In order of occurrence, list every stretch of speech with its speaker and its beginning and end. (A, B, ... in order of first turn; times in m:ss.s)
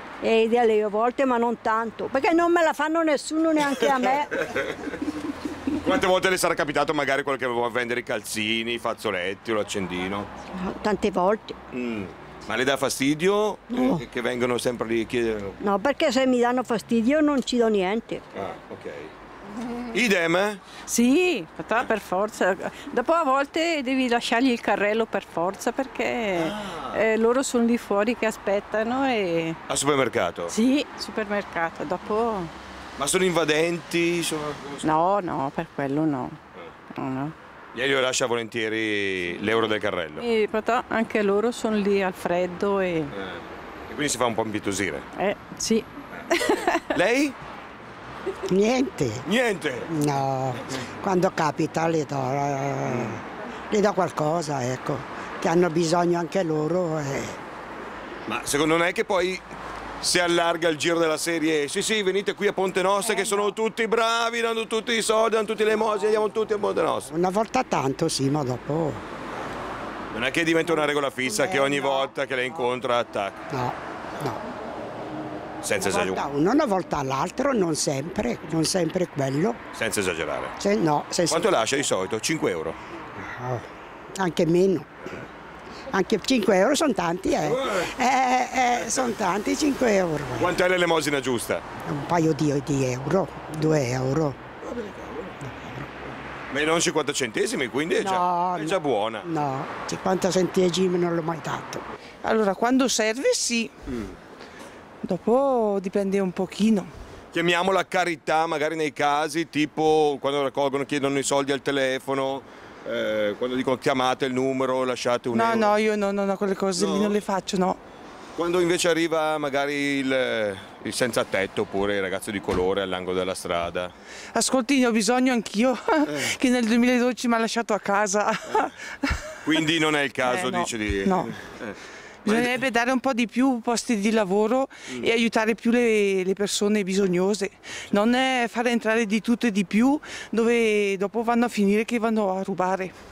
0:00.2-0:04.3 A
0:03.8-0:04.9 B
0:05.8-0:10.3 B
0:10.5-0:11.6 A
0:11.7-0:15.6 B
0:13.7-0:14.0 A
0:15.6-0:18.2 A
0:18.3-0:19.1 B
0:19.9-0:20.6 B
0:20.9-0:29.6 C
0:26.4-0:27.0 B
0:29.7-0:30.5 B
0:30.5-0:32.5 C
0:33.0-0:34.9 B
0:34.8-0:36.4 C
0:36.9-0:37.3 C
0:37.7-0:40.3 B
0:40.2-0:43.1 C
0:43.1-0:45.0 B
0:45.2-0:46.8 C
0:46.9-0:47.4 B
0:48.5-0:49.2 D
0:49.2-0:49.9 B
0:49.9-0:57.4 D
0:52.9-0:53.2 B
0:58.3-0:59.4 B
1:00.0-1:07.1 B
1:07.1-1:09.0 D
1:10.1-1:13.4 B
1:11.3-1:12.1 D
1:13.5-1:14.4 D
1:15.6-1:16.2 B
1:15.8-1:19.6 D
1:19.7-1:20.5 B
1:20.6-1:21.5 D
1:21.3-1:22.8 B
1:23.2-1:23.6 D
1:24.2-1:24.9 D
1:25.9-1:30.5 D
1:27.4-1:27.9 B
1:30.4-1:31.6 B
1:31.9-1:34.4 D
1:34.6-1:35.4 B
1:35.4-1:35.9 D
1:36.5-1:39.3 B
1:38.0-1:41.8 D
1:42.2-1:43.7 E
1:43.9-1:44.1 B
1:45.0-1:46.9 E
1:47.3-1:55.7 B
1:55.3-1:57.8 E
1:56.8-1:57.2 B
1:58.4-2:03.9 B
2:04.3-2:09.3 E
2:09.4-2:12.5 B
2:10.2-2:11.3 E
2:12.2-2:23.0 E